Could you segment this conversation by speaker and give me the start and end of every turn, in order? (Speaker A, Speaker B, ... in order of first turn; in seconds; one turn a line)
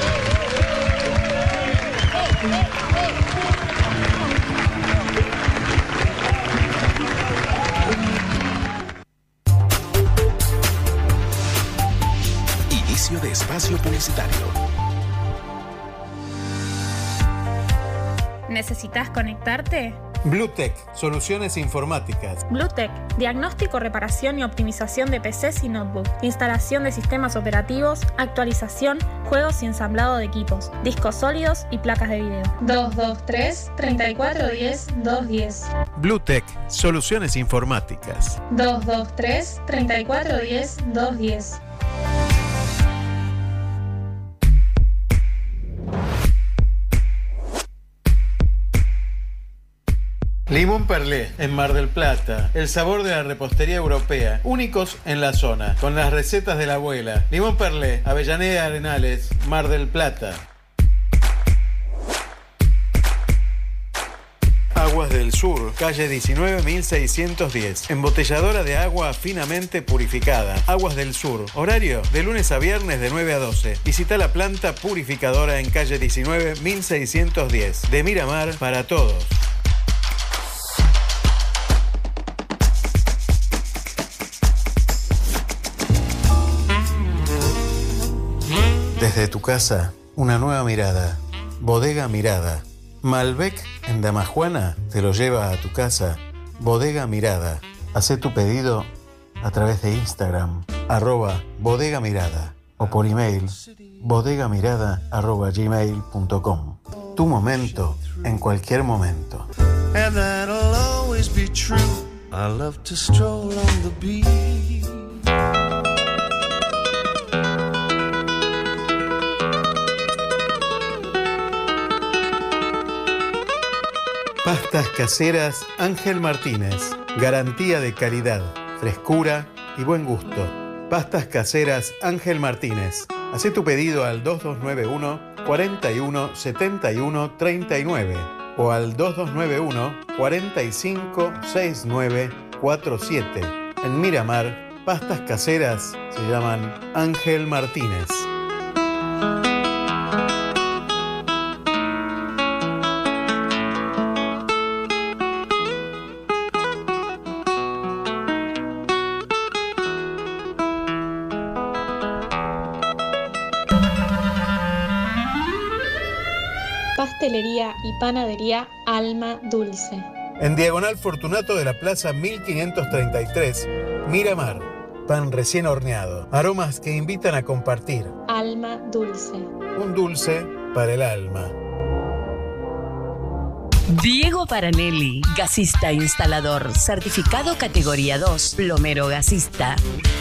Speaker A: 18.5-20.0
Speaker B: 20.2-22.4
Speaker A: 22.5-35.7
Speaker B: 36.0-38.4
Speaker A: 38.5-41.6
Speaker B: 50.5-60.4
Speaker B: 64.7-79.4
Speaker B: 89.0-98.9
Speaker B: 99.4-109.5
Speaker C: 107.4-108.2
Speaker C: 109.9-114.7
Speaker B: 124.4-148.3
Speaker A: 166.9-170.1
Speaker B: 170.4-178.1
Speaker A: 178.3-179.5
Speaker B: 179.7-181.5
Speaker D: 183.9-189.8